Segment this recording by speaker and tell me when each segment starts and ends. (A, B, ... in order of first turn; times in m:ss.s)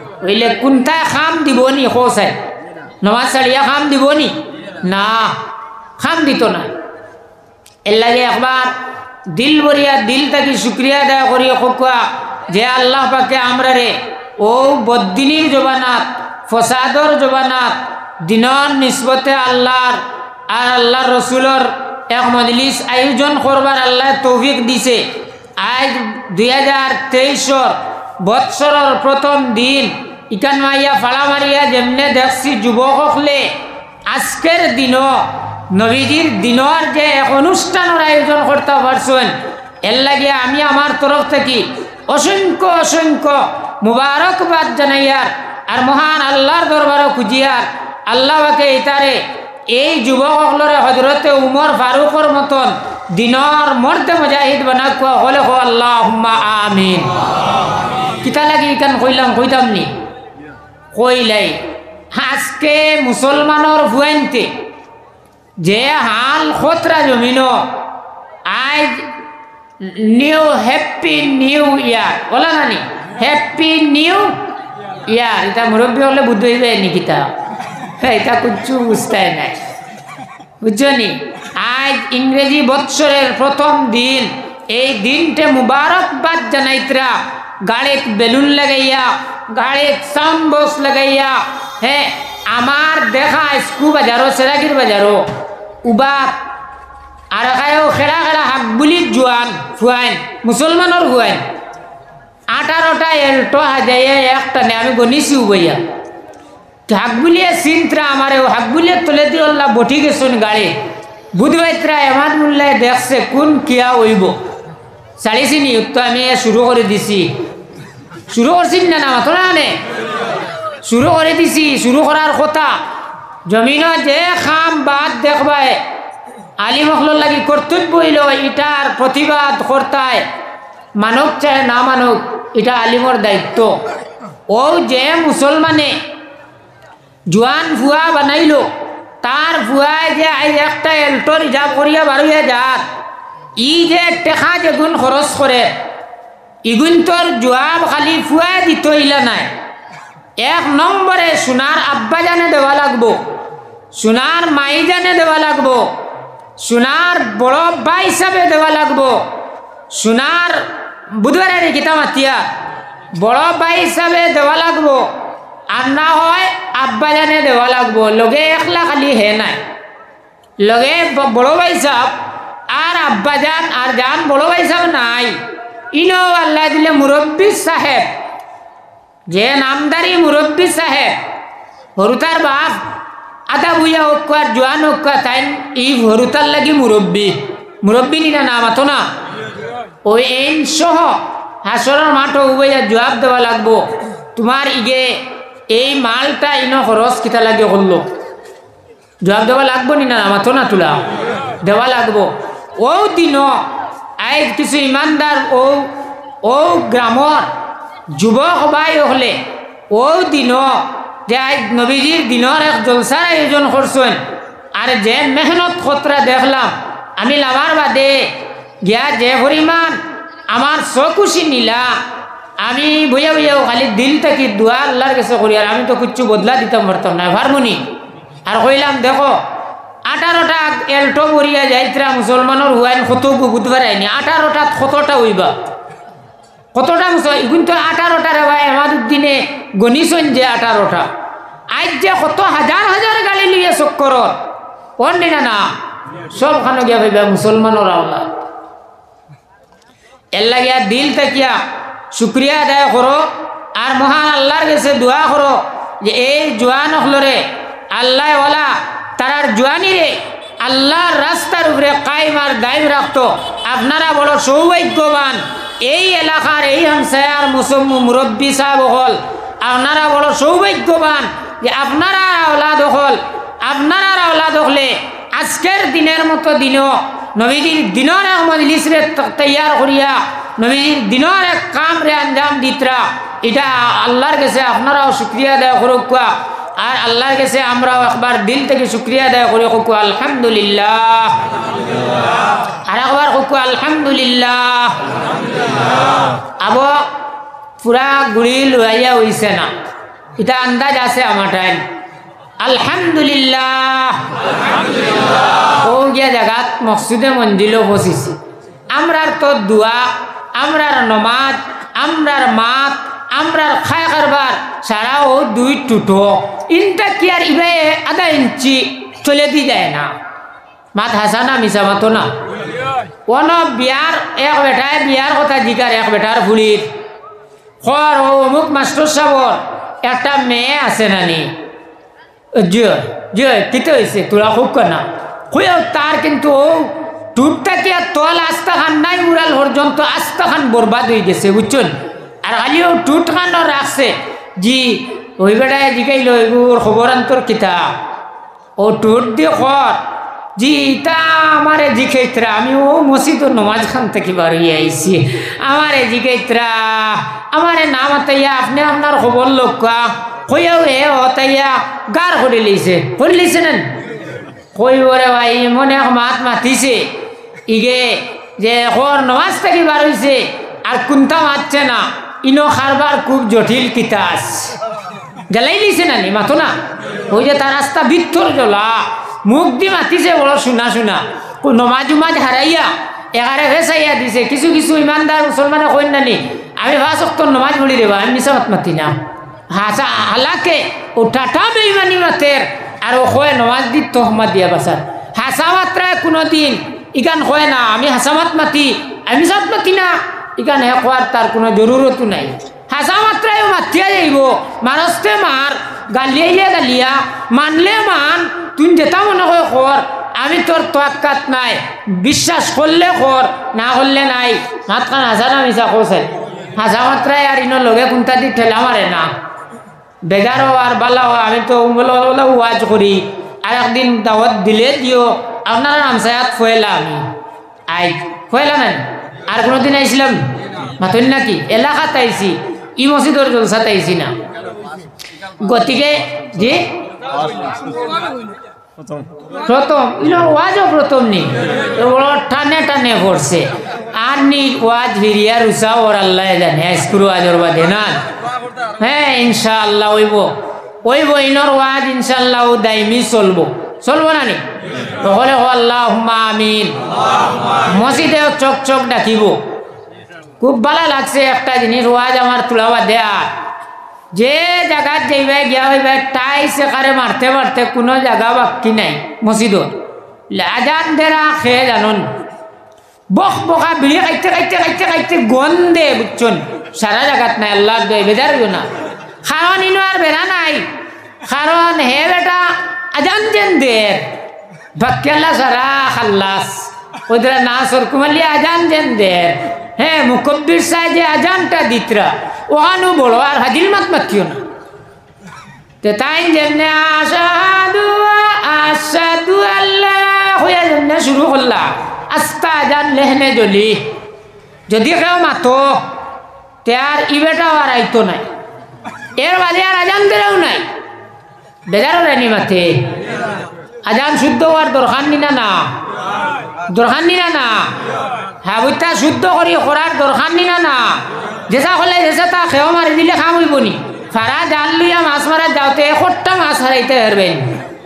0:00.2-0:02.4 A
0:03.0-0:05.4 A
0:06.0-0:06.7 A
0:07.9-0:08.8 A
0:09.3-0:25.0 A
0:25.6-0:33.5 A
0:34.1-0:39.3 A
0:39.8-0:57.1 A
0:58.2-0:59.9 A
1:00.9-1:01.6 A
1:02.1-1:04.5 A
1:05.6-1:07.7 A
1:08.5-1:09.1 A
1:09.8-1:14.4 A
1:15.1-1:19.6 A
1:20.6-1:35.2 A
1:35.8-1:36.4 A
1:37.3-1:41.4 A
1:42.5-1:45.8 A
1:46.9-1:50.8 A
1:51.3-1:54.4 A
1:55.2-1:57.3 A
1:58.3-1:59.8 A
2:00.8-2:02.8 A
2:03.5-2:05.8 A
2:06.6-2:10.2 A
2:11.0-2:13.8 A
2:14.5-2:16.0 A
2:17.3-2:18.7 A
2:19.2-2:22.8 A
2:23.6-2:25.7 A
2:26.6-2:29.5 A
2:30.4-2:33.2 A
2:33.9-2:35.9 A
2:36.6-2:39.2 A
2:39.9-2:42.4 A
2:43.1-2:45.1 A
2:45.7-2:49.6 A
2:50.6-2:52.1 A
2:52.7-2:55.3 A
2:55.9-2:58.1 A
2:59.3-3:01.2 A
3:02.0-3:02.8 A
3:03.5-3:09.1 A
3:10.0-3:18.1 A
3:19.2-3:21.0 A
3:21.6-3:23.6 A
3:24.2-3:27.5 A
3:28.1-3:29.4 A
3:29.9-3:34.2 A
3:34.7-3:42.0 A
3:42.6-3:47.8 A
3:48.5-3:49.4 A
3:50.1-3:55.5 A
3:56.7-4:01.1 A
4:01.7-4:04.4 A
4:05.0-4:05.7 A
4:06.3-4:08.3 A
4:10.3-4:11.6 A
4:12.1-4:51.4 A
4:52.9-4:55.0 A
4:56.6-4:57.1 A
4:57.8-4:59.7 A
5:00.4-5:01.8 A
5:02.6-5:04.3 A
5:05.8-5:08.4 A
5:08.9-5:20.1 A
5:20.9-5:22.3 A
5:23.3-5:26.9 A
5:27.8-5:31.6 A
5:32.5-5:47.9 A
5:48.8-5:50.0 A
5:50.6-6:03.9 A
6:04.7-6:07.1 A
6:07.7-6:14.8 A
6:15.5-6:29.2 A
6:29.7-6:59.3 A
7:00.2-7:07.3 A
7:07.9-7:14.4 A
7:15.6-7:17.0 A
7:19.6-7:28.2 A
7:29.0-7:34.6 A
7:35.2-7:37.0 A
7:37.7-7:39.6 A
7:40.6-7:43.5 A
7:44.3-7:50.0 A
7:50.5-7:52.3 A
7:53.3-7:58.9 A
7:59.4-8:00.9 A
8:01.4-8:04.3 A
8:05.0-8:14.6 A
8:16.0-8:24.1 A
8:24.9-8:26.1 A
8:26.8-8:28.4 A
8:29.4-8:30.8 A
8:31.9-8:33.1 A
8:34.0-8:35.9 A
8:36.9-8:38.0 A
8:38.6-8:47.7 A